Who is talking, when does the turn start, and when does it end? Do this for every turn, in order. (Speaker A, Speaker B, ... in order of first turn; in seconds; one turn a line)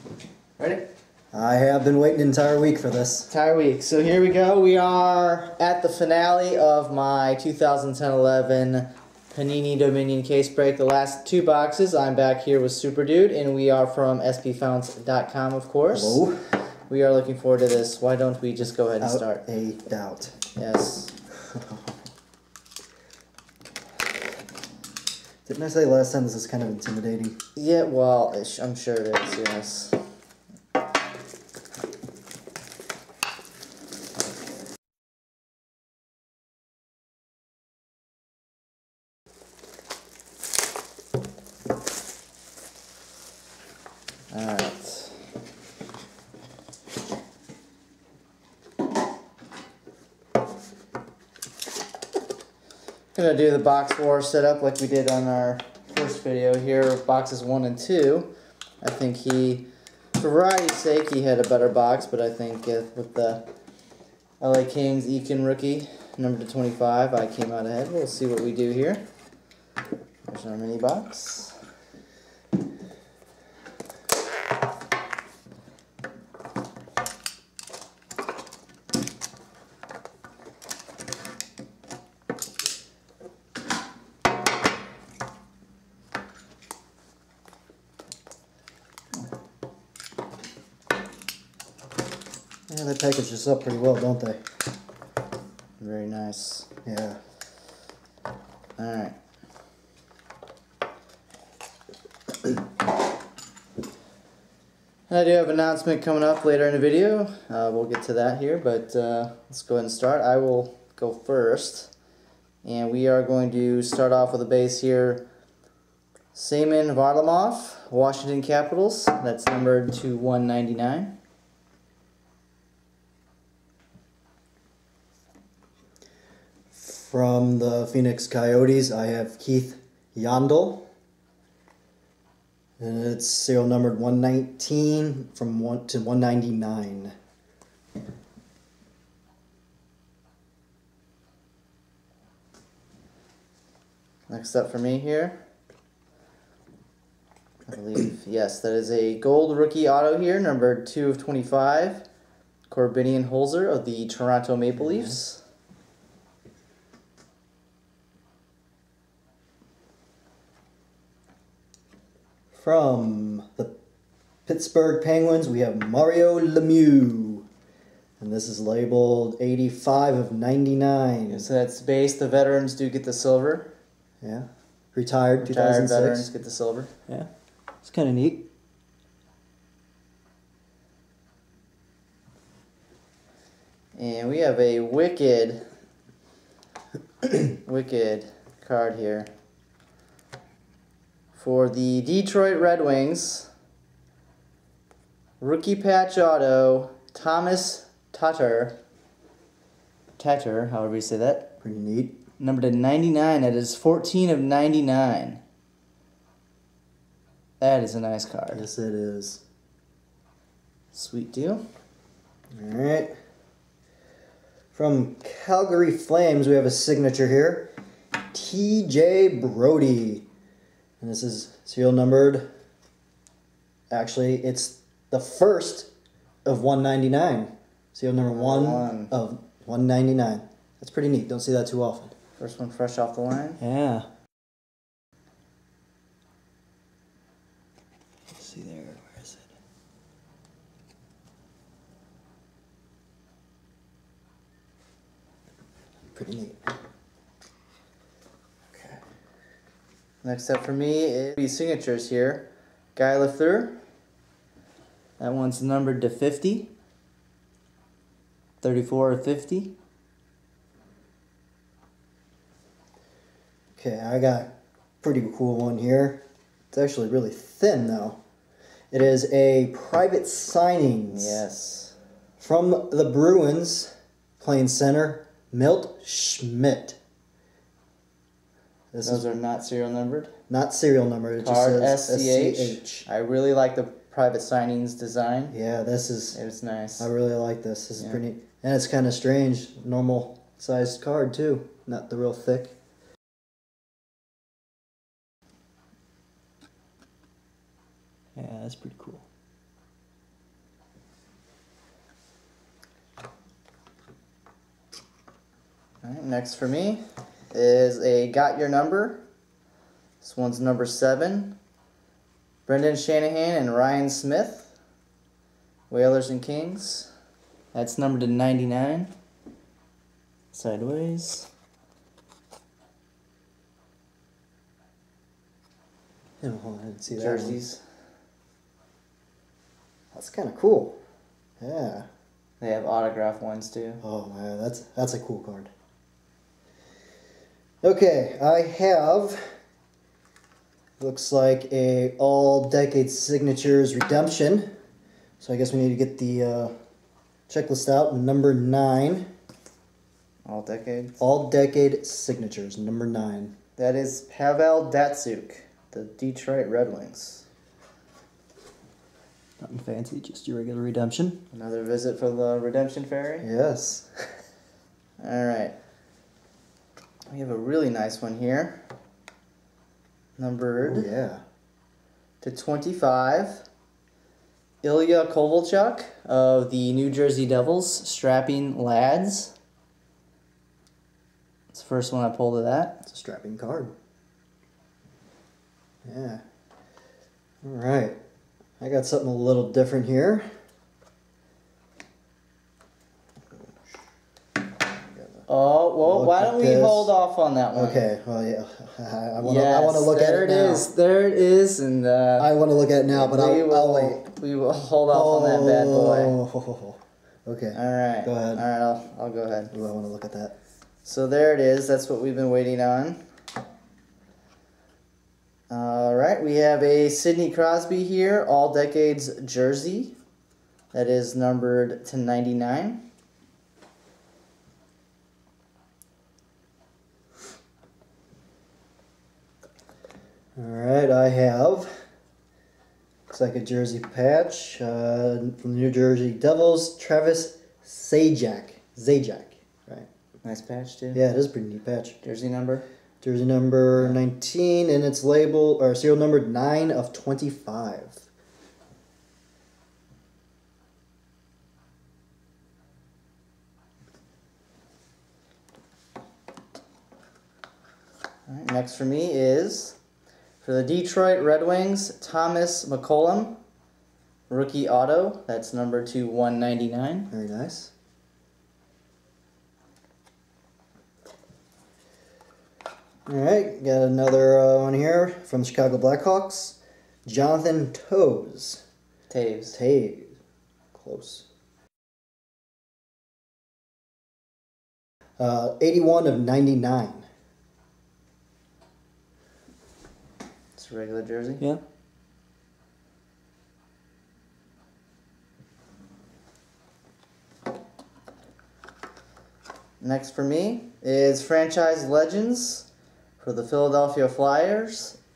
Speaker A: 0.6-0.9
Speaker B: 1.3-3.3
Speaker A: 3.3-16.2
Speaker B: 15.9-16.4
Speaker A: 16.9-19.4
Speaker B: 19.0-20.4
Speaker A: 20.6-21.1
Speaker B: 21.5-21.9
Speaker B: 25.5-27.4
Speaker A: 27.6-30.0
Speaker A: 44.3-45.2
Speaker A: 53.1-58.3
Speaker A: 58.8-63.5
Speaker A: 64.4-69.0
Speaker A: 70.3-71.5
Speaker B: 92.7-94.4
Speaker A: 95.8-96.7
Speaker B: 96.8-97.2
Speaker A: 98.8-99.2
Speaker A: 105.1-111.9
Speaker A: 112.6-115.2
Speaker A: 116.3-121.1
Speaker B: 126.7-130.9
Speaker B: 132.8-137.1
Speaker A: 144.3-145.3
Speaker A: 147.7-152.0
Speaker A: 152.7-155.4
Speaker B: 154.8-155.2
Speaker B: 162.5-163.7
Speaker B: 164.5-167.5
Speaker B: 168.2-171.4
Speaker A: 171.3-173.7
Speaker B: 174.2-176.3
Speaker A: 175.4-176.9
Speaker B: 177.8-178.5
Speaker A: 183.9-185.6
Speaker A: 187.5-189.3
Speaker A: 191.3-193.5
Speaker A: 195.4-198.8
Speaker A: 200.2-201.5
Speaker B: 201.6-202.2
Speaker A: 202.4-205.4
Speaker A: 207.6-208.6
Speaker B: 208.5-209.4
Speaker A: 210.9-211.6
Speaker B: 212.6-213.1
Speaker B: 214.7-217.7
Speaker B: 218.3-220.3
Speaker B: 221.0-222.5
Speaker B: 223.9-225.9
Speaker B: 226.4-232.2
Speaker A: 228.3-229.1
Speaker A: 232.4-233.6
Speaker B: 233.6-234.1
Speaker B: 238.4-239.4
Speaker B: 246.1-246.7
Speaker B: 248.7-249.0
Speaker A: 250.2-253.8
Speaker A: 255.2-256.7
Speaker A: 258.6-259.8
Speaker B: 263.8-268.2
Speaker B: 268.9-271.4
Speaker A: 271.1-272.0
Speaker B: 272.4-277.0
Speaker B: 278.9-279.2
Speaker A: 279.0-280.3
Speaker B: 280.5-283.1
Speaker A: 281.4-285.6
Speaker B: 285.5-286.4
Speaker A: 286.3-287.1
Speaker B: 287.0-292.8
Speaker B: 298.4-299.3
Speaker A: 306.0-309.2
Speaker A: 310.2-311.6
Speaker A: 312.7-314.7
Speaker A: 315.9-317.1
Speaker A: 317.7-319.1
Speaker A: 320.5-321.5
Speaker B: 326.4-327.6
Speaker A: 327.2-327.8
Speaker B: 330.1-331.0
Speaker B: 331.6-332.1
Speaker A: 332.6-334.0
Speaker B: 334.0-335.7
Speaker B: 337.8-339.4
Speaker B: 341.0-344.7
Speaker B: 345.4-346.7
Speaker B: 347.5-349.3
Speaker A: 350.5-351.2
Speaker B: 351.2-353.5
Speaker A: 353.8-357.4
Speaker B: 359.6-361.4
Speaker A: 361.5-363.5
Speaker B: 363.4-364.1
Speaker A: 365.2-365.8
Speaker A: 367.3-368.8
Speaker A: 370.4-371.1
Speaker B: 370.8-371.4
Speaker A: 372.4-373.7
Speaker A: 374.8-379.5
Speaker A: 381.7-383.0
Speaker B: 383.1-383.9
Speaker B: 386.1-386.4
Speaker B: 387.6-388.2
Speaker B: 388.8-390.4
Speaker A: 395.5-398.1
Speaker B: 396.0-397.1
Speaker B: 397.7-400.9
Speaker A: 399.4-402.5
Speaker B: 402.4-404.2
Speaker A: 403.1-406.4
Speaker B: 405.1-408.6
Speaker A: 407.7-409.7
Speaker B: 409.7-410.6
Speaker A: 411.1-413.2
Speaker A: 415.7-420.2
Speaker A: 420.9-423.0
Speaker B: 430.6-431.9
Speaker B: 433.3-440.1
Speaker A: 440.4-441.2
Speaker B: 441.1-442.2
Speaker A: 442.2-442.8
Speaker B: 443.2-448.3
Speaker A: 458.5-460.0
Speaker A: 460.6-463.6
Speaker A: 464.5-467.3
Speaker B: 467.3-467.9
Speaker B: 473.3-478.8
Speaker A: 479.3-479.8
Speaker B: 479.7-480.4
Speaker B: 480.9-481.5
Speaker B: 485.4-487.2
Speaker A: 490.8-491.6
Speaker A: 500.0-502.9
Speaker A: 503.4-505.2